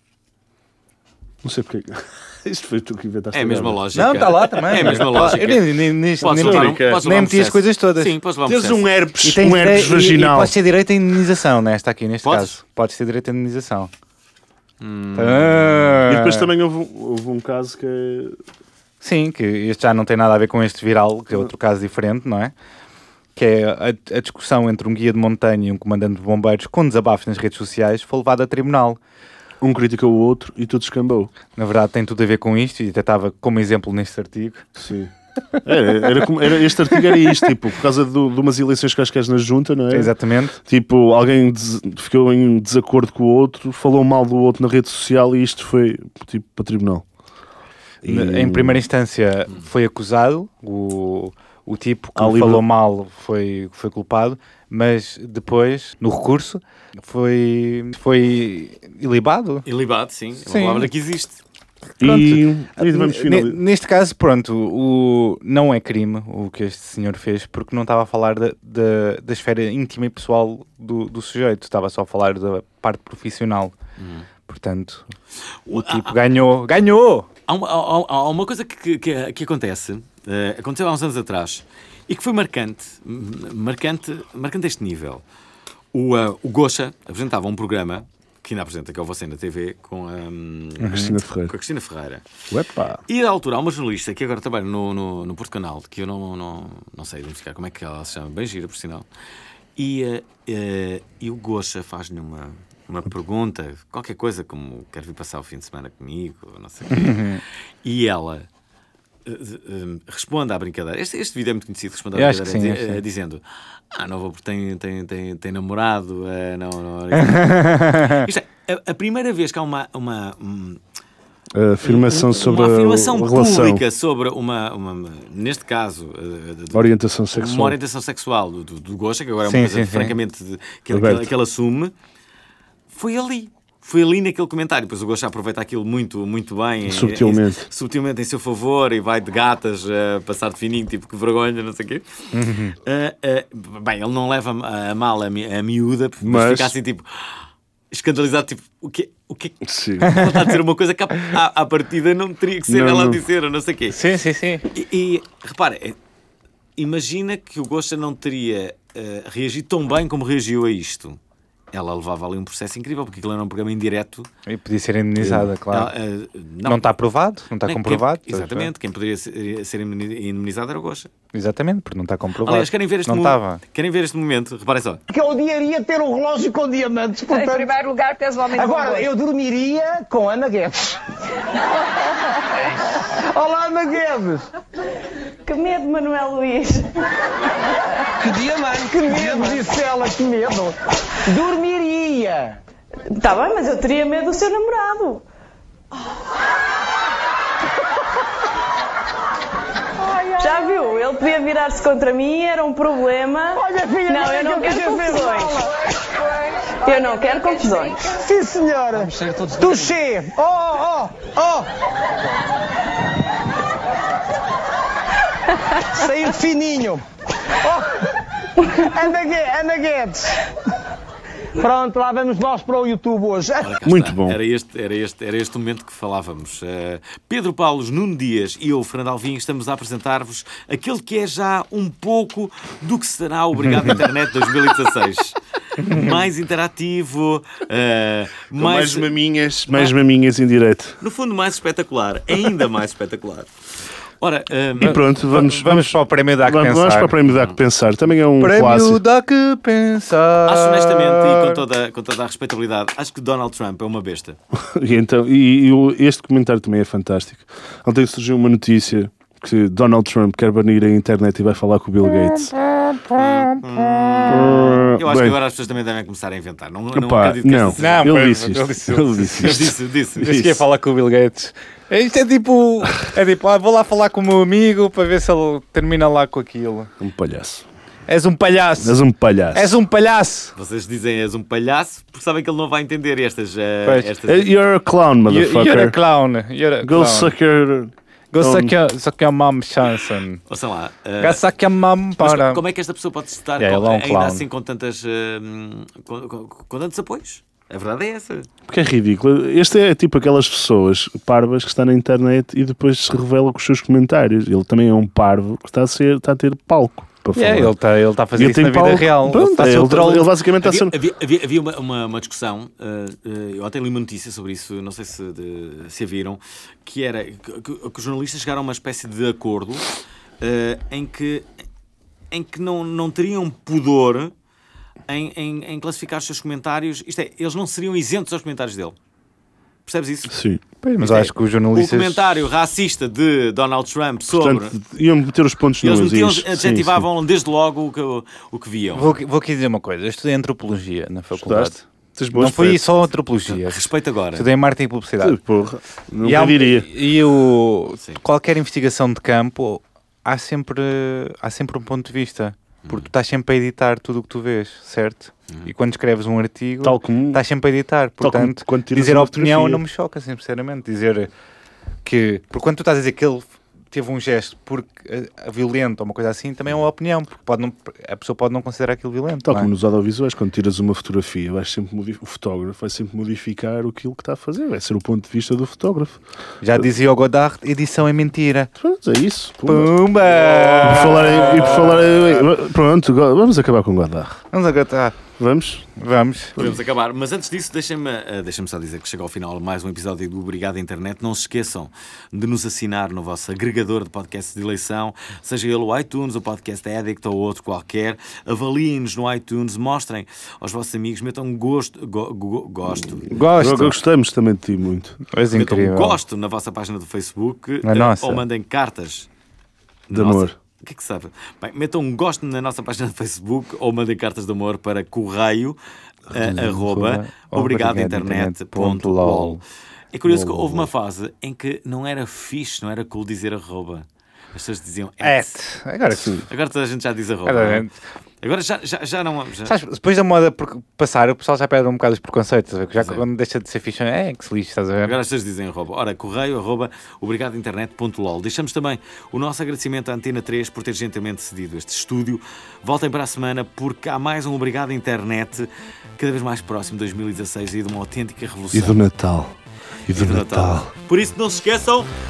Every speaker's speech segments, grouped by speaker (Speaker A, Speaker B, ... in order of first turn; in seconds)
Speaker A: 1.4-3.9, 4.8-5.4, 6.2-7.0, 8.5-10.5, 16.0-18.4, 29.6-31.3, 34.8-35.1, 35.6-40.1, 40.6-47.1, 48.0-48.8, 52.2-52.6, 62.0-63.6, 90.8-91.5, 92.5-93.0, 121.5-123.8, 126.7-127.8, 130.9-131.3, 136.8-137.7, 146.2-146.8, 149.6-150.2, 152.7-153.2, 165.2-165.5, 223.8-224.4, 238.6-241.0, 244.8-249.0, 254.6-262.6, 264.3-265.4, 266.9-269.8, 277.0-277.7, 278.8-279.8, 284.3-286.0, 286.8-288.7, 298.7-307.8, 308.4-311.0, 330.3-330.6, 334.3-337.1, 341.3-342.9, 345.2-346.9, 356.8-357.4, 358.2-359.8, 369.4-376.2, 378.8-379.9, 380.8-384.4, 385.4-385.9, 403.5-405.2, 410.1-410.6, 420.3-420.9, 448.7-450.9
Speaker B: 3.3-8.9, 12.2-12.6, 14.8-15.8, 59.7-61.4, 74.0-74.3, 75.7-76.2, 77.5-85.2, 85.9-92.2, 93.1-99.1, 99.8-107.3, 107.8-108.5, 109.3-120.8, 121.8-131.9, 132.9-142.0, 142.8-147.4, 147.9-154.0, 154.7-156.0, 156.8-161.2, 161.7-164.3, 165.7-166.9, 167.6-171.1, 172.4-175.0, 223.6-239.1, 239.7-239.9, 241.0-243.5, 244.2-245.0, 247.3-247.6, 250.5-254.4, 263.1-268.1, 269.4-270.6, 280.6-284.5, 290.5-291.4, 292.2-298.5, 310.6-319.9, 320.4-321.5, 322.3-324.3, 325.1-329.0, 329.9-330.4, 331.0-334.8, 335.8-339.1, 343.5-344.5, 380.2-381.9, 386.6-403.4, 405.5-409.3, 410.1-415.8, 416.3-419.6, 420.1-425.6, 426.5-427.9, 428.4-429.7, 433.0-433.2, 435.1-449.0, 450.1-452.1
Speaker C: 3.9-8.2, 9.2-13.9, 15.2-16.5, 19.0-22.5, 23.4-29.0, 31.6-34.7, 39.9-40.6, 48.0-59.7, 60.4-60.9, 62.0-73.7, 74.5-75.1, 75.7-77.3, 106.9-107.4, 112.2-113.0, 117.2-118.3, 129.5-130.2, 142.3-142.8, 153.9-154.7, 164.5-165.9, 166.7-168.7, 171.3-173.6, 233.7-233.9, 235.8-236.2, 244.8-247.2, 248.4-251.6, 267.8-276.9, 278.1-279.0, 279.5-280.5, 285.3-287.4, 288.3-290.4, 291.2-292.6, 293.6-294.4, 307.3-310.3, 330.8-332.2, 338.9-345.4, 346.2-361.3, 362.1-369.7, 376.6-378.7, 379.7-382.4, 384.5-385.2, 386.0-386.6, 403.3-404.0, 405.3-406.2, 407.8-408.4, 416.4-419.6, 425.2-426.5, 427.5-427.9, 429.7-435.2
Speaker D: 175.1-181.0, 183.0-184.5, 188.2-192.6, 200.0-200.9, 203.6-205.8, 208.1-211.7, 215.9-217.1, 217.6-218.1, 218.7-220.4, 221.6-223.8
Speaker E: 177.4-179.0, 185.4-186.9, 193.2-195.2, 200.4-205.6, 206.8-208.2